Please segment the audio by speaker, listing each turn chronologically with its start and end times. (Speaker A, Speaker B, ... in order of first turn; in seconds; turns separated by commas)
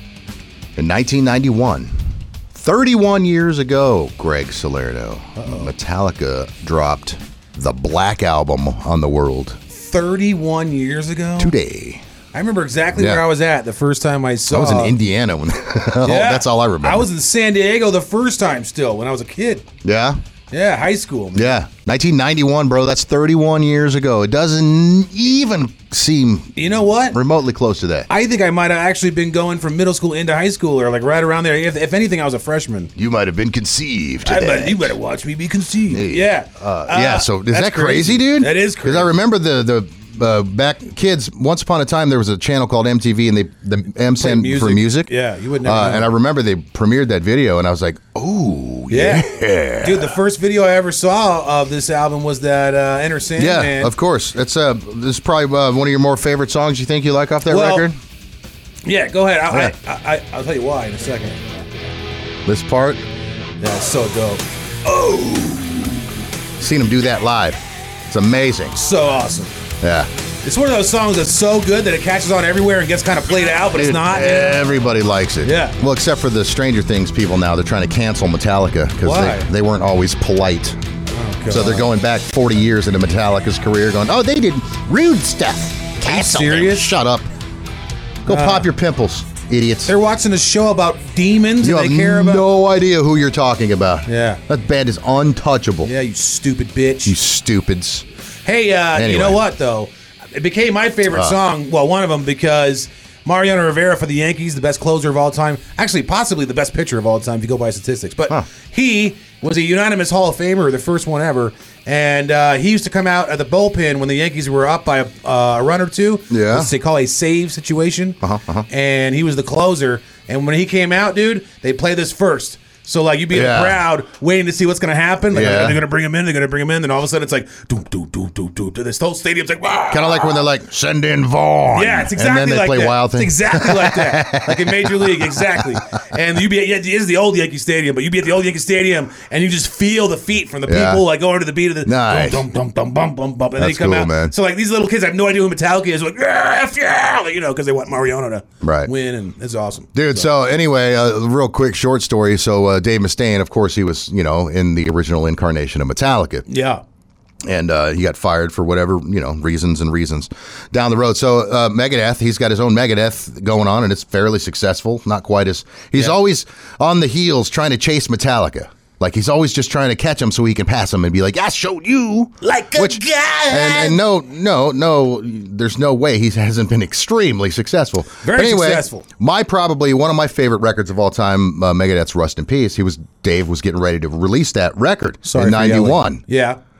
Speaker A: 0.8-9.6, Speaker B: 5.4-5.7, Speaker B: 9.7-11.5, Speaker A: 11.4-12.0, Speaker B: 12.3-14.9, Speaker A: 12.9-13.2, Speaker A: 14.5-17.1, Speaker B: 16.0-19.7, Speaker A: 19.8-20.2, Speaker B: 20.5-21.6, Speaker A: 21.3-28.1, Speaker B: 26.6-27.2, Speaker B: 28.1-32.9, Speaker A: 33.0-35.0, Speaker B: 34.2-39.1, Speaker A: 35.9-45.1, Speaker B: 44.2-46.1, Speaker A: 45.6-50.1, Speaker B: 48.9-49.2, Speaker B: 49.8-53.9, Speaker A: 53.4-58.0, Speaker B: 57.5-57.9, Speaker B: 58.8-61.4, Speaker A: 62.5-63.0, Speaker B: 63.6-65.8, Speaker A: 66.6-68.8, Speaker B: 68.7-69.5, Speaker A: 69.8-70.1, Speaker B: 70.4-74.6, Speaker A: 73.7-80.8, Speaker B: 75.4-75.7, Speaker B: 79.0-79.5, Speaker B: 81.1-81.9, Speaker A: 81.5-87.3, Speaker B: 86.0-86.9, Speaker A: 88.2-89.9, Speaker B: 88.3-88.7, Speaker B: 89.8-92.4, Speaker A: 91.6-95.9, Speaker B: 94.1-94.4, Speaker B: 95.8-97.2, Speaker A: 97.0-98.0, Speaker B: 98.4-118.2, Speaker A: 98.9-99.4, Speaker A: 101.1-101.3, Speaker A: 116.3-116.7, Speaker A: 118.2-118.7, Speaker B: 118.7-130.4, Speaker A: 123.3-123.8, Speaker A: 125.3-125.8, Speaker A: 129.9-135.8, Speaker B: 131.7-150.3, Speaker A: 140.7-141.0, Speaker A: 141.8-142.4, Speaker A: 143.6-144.3, Speaker A: 148.6-148.9, Speaker A: 149.9-156.4, Speaker B: 156.5-156.8, Speaker A: 157.4-186.2, Speaker B: 172.4-174.0, Speaker B: 178.2-179.0, Speaker B: 185.2-186.6